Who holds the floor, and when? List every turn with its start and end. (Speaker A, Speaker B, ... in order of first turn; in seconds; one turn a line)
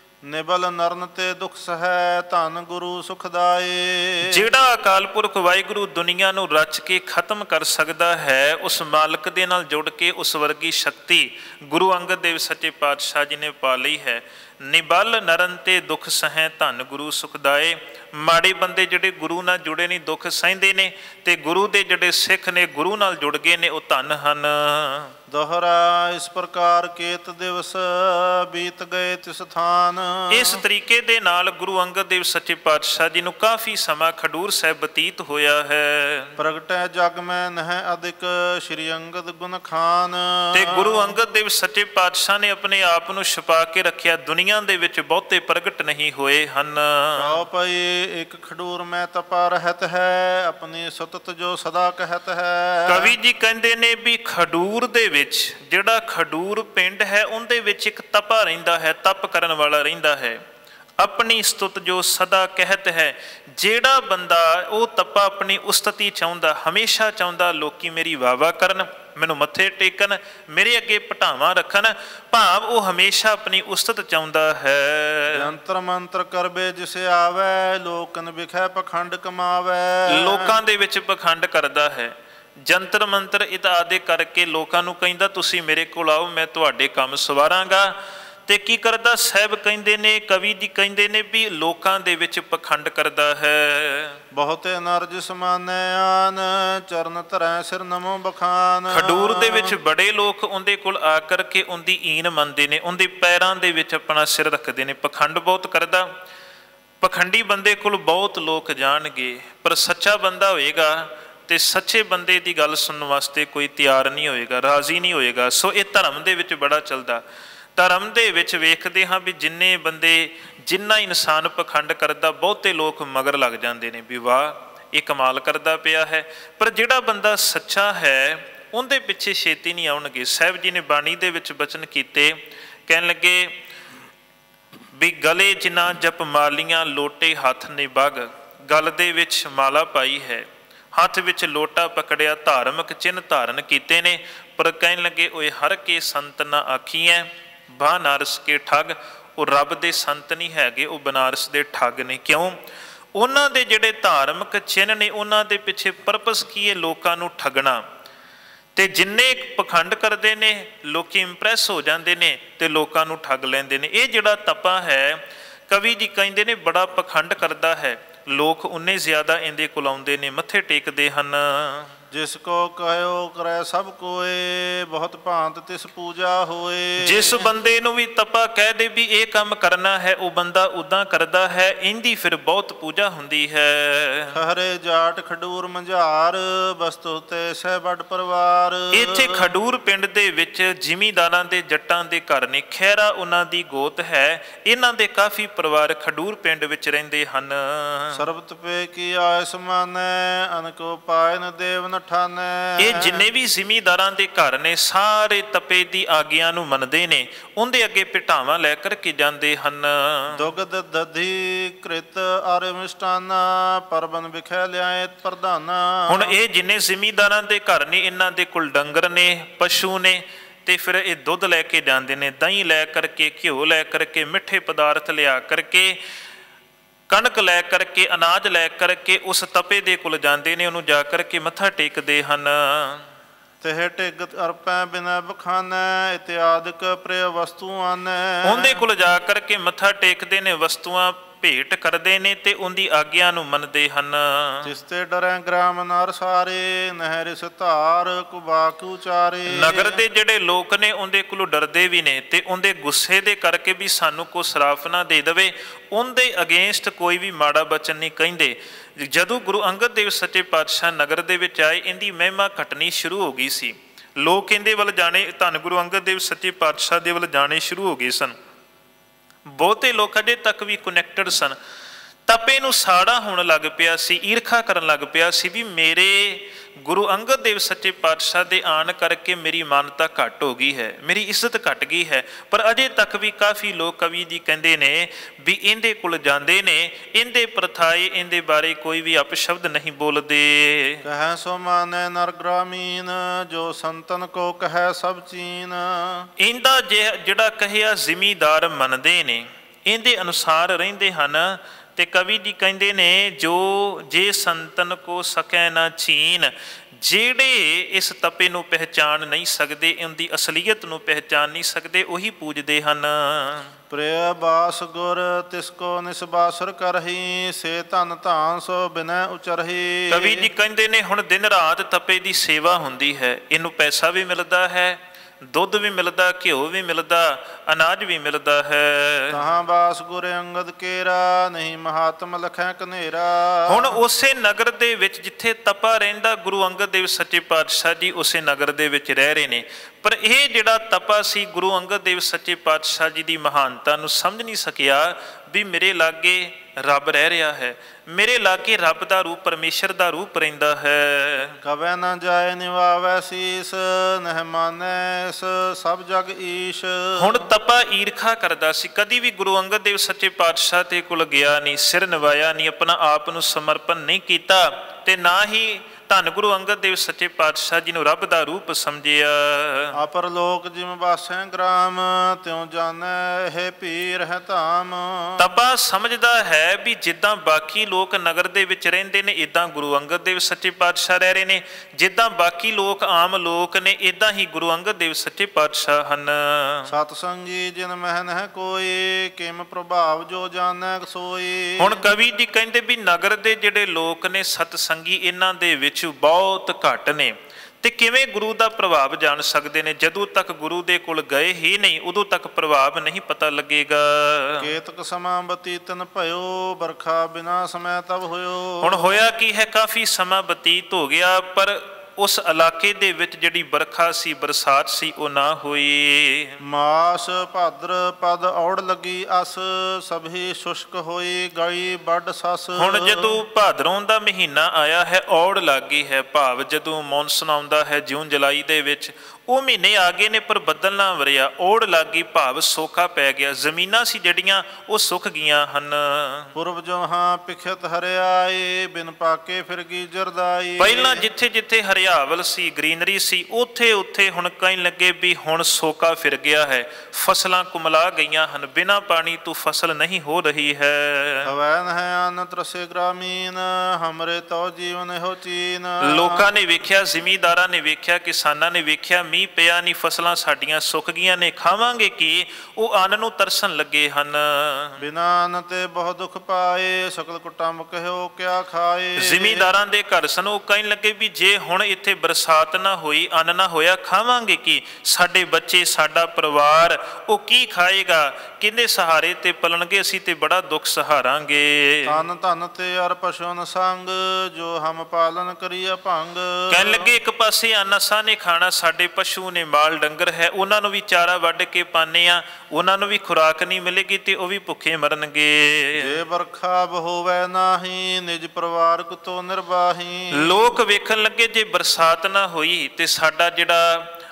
Speaker A: 0.2-4.4
Speaker B: 4.2-25.1
Speaker A: 25.3-30.6
Speaker B: 30.3-36.4
Speaker A: 36.4-41.1
Speaker B: 40.5-47.4
Speaker A: 47.2-53.1
Speaker B: 52.9-60.4
Speaker B: 61.0-75.5
Speaker A: 75.3-80.5
Speaker B: 80.1-88.0
Speaker B: 88.5-94.2
Speaker A: 94.3-99.7
Speaker B: 98.9-106.1
Speaker B: 107.0-117.2
Speaker B: 117.8-133.5
Speaker B: 134.9-152.6
Speaker B: 153.2-157.8
Speaker B: 158.8-171.9
Speaker A: 172.1-177.5
Speaker B: 177.0-184.4
Speaker A: 184.3-189.5
Speaker B: 188.9-198.2
Speaker A: 198.1-203.3
Speaker B: 202.8-210.4
Speaker A: 210.4-216.3
Speaker B: 216.1-226.0
Speaker B: 227.1-233.0
Speaker A: 233.6-238.8
Speaker B: 238.4-244.7
Speaker A: 244.6-250.0
Speaker B: 249.5-268.4
Speaker B: 269.5-271.6
Speaker B: 272.3-291.0
Speaker A: 291.0-296.3
Speaker B: 296.4-313.7
Speaker A: 313.9-320.5
Speaker B: 320.1-329.4
Speaker A: 329.3-334.0
Speaker B: 333.7-351.6
Speaker A: 351.6-357.5
Speaker B: 357.2-370.0
Speaker A: 369.9-375.5
Speaker B: 375.4-386.9
Speaker A: 386.9-392.0
Speaker B: 391.8-404.7
Speaker A: 404.6-409.1
Speaker B: 408.8-416.6
Speaker A: 416.6-423.4
Speaker B: 422.8-436.5
Speaker A: 436.6-441.2
Speaker B: 440.8-451.5
Speaker A: 451.4-456.4
Speaker B: 456.0-465.0
Speaker A: 465.0-469.7
Speaker B: 469.2-482.1
Speaker A: 482.1-487.1
Speaker B: 486.7-496.1
Speaker A: 496.0-500.6
Speaker B: 500.3-504.1